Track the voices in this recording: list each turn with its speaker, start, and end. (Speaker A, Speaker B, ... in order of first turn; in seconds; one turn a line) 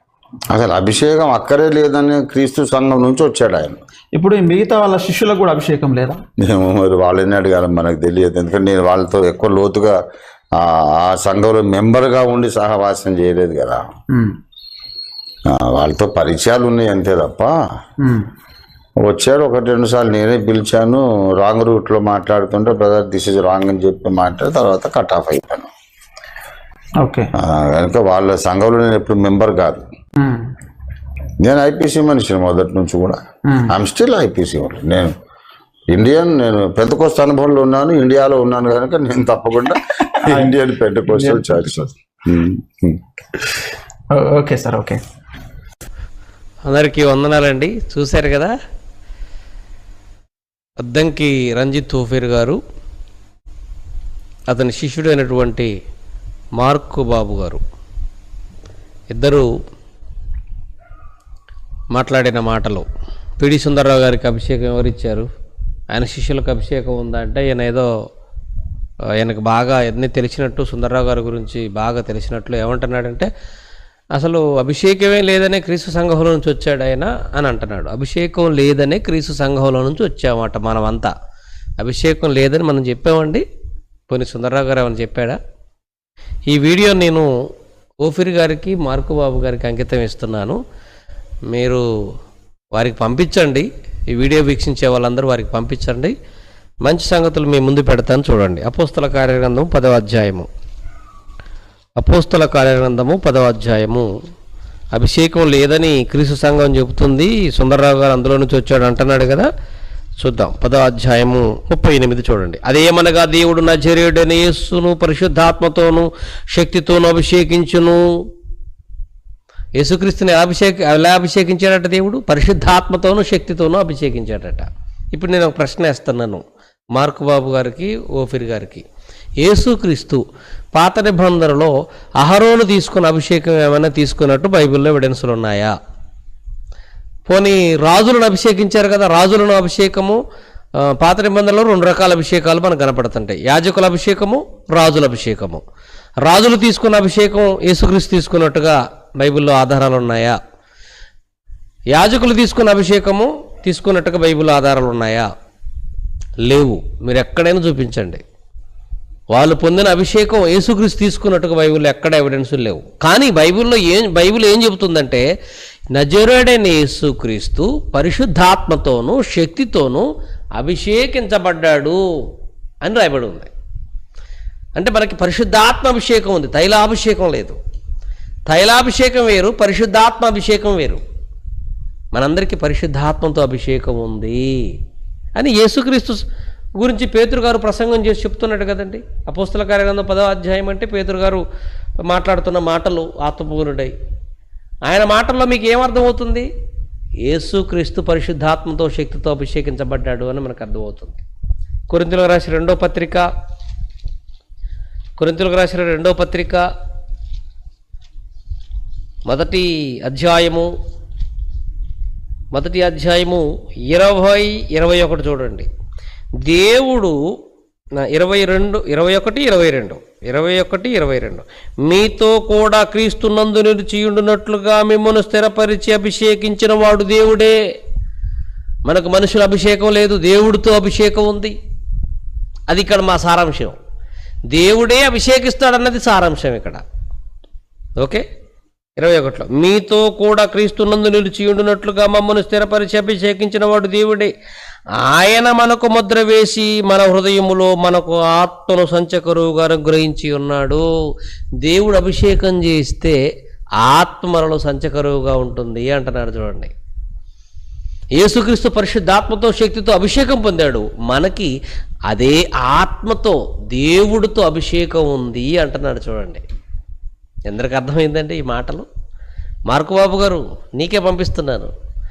Speaker A: 0.5-3.8
Speaker B: 4.1-6.2
Speaker A: 6.4-10.0
Speaker A: 10.5-13.8
Speaker A: 15.5-17.5
Speaker B: 18.0-18.2
Speaker A: 19.0-25.7
Speaker B: 27.0-27.3
Speaker A: 27.4-29.8
Speaker B: 30.1-30.5
Speaker A: 31.4-35.1
Speaker A: 35.9-43.0
Speaker B: 40.1-40.5
Speaker B: 41.1-41.6
Speaker B: 44.1-45.0
Speaker C: 46.6-48.5
Speaker C: 50.8-52.6
Speaker C: 54.5-55.7
Speaker C: 56.6-57.6
Speaker C: 59.1-59.5
Speaker C: 61.9-62.9
Speaker C: 63.4-65.3
Speaker C: 65.9-67.9
Speaker C: 69.2-73.3
Speaker C: 74.1-81.1
Speaker C: 81.8-83.4
Speaker C: 84.1-85.4
Speaker C: 86.5-87.3
Speaker C: 88.0-90.6
Speaker C: 91.5-91.8
Speaker C: 92.7-96.1
Speaker C: 96.8-100.5
Speaker C: 102.0-104.1
Speaker C: 104.9-109.5
Speaker C: 110.2-118.0
Speaker C: 119.8-126.4
Speaker C: 126.9-128.8
Speaker C: 129.4-130.2
Speaker C: 130.7-135.8
Speaker C: 137.3-140.2
Speaker C: 140.8-145.6
Speaker C: 146.2-150.4
Speaker C: 151.9-155.3
Speaker C: 156.4-158.2
Speaker C: 159.3-165.2
Speaker C: 165.9-172.0
Speaker C: 172.8-173.5
Speaker C: 174.8-177.6
Speaker C: 178.5-181.0
Speaker C: 182.1-184.6
Speaker C: 185.3-186.2
Speaker C: 186.8-191.4
Speaker C: 192.0-193.9
Speaker C: 194.8-196.5
Speaker C: 197.2-201.2
Speaker C: 201.9-203.3
Speaker C: 205.2-206.6
Speaker C: 209.2-210.7
Speaker C: 212.5-215.7
Speaker C: 216.4-217.2
Speaker C: 218.0-227.6
Speaker C: 228.8-231.5
Speaker C: 232.7-233.8
Speaker C: 234.5-236.8
Speaker C: 238.0-238.2
Speaker C: 239.0-244.3
Speaker C: 244.9-250.8
Speaker C: 251.6-253.2
Speaker C: 253.8-256.7
Speaker C: 258.1-261.5
Speaker C: 262.1-266.4
Speaker C: 267.5-268.9
Speaker C: 269.7-271.7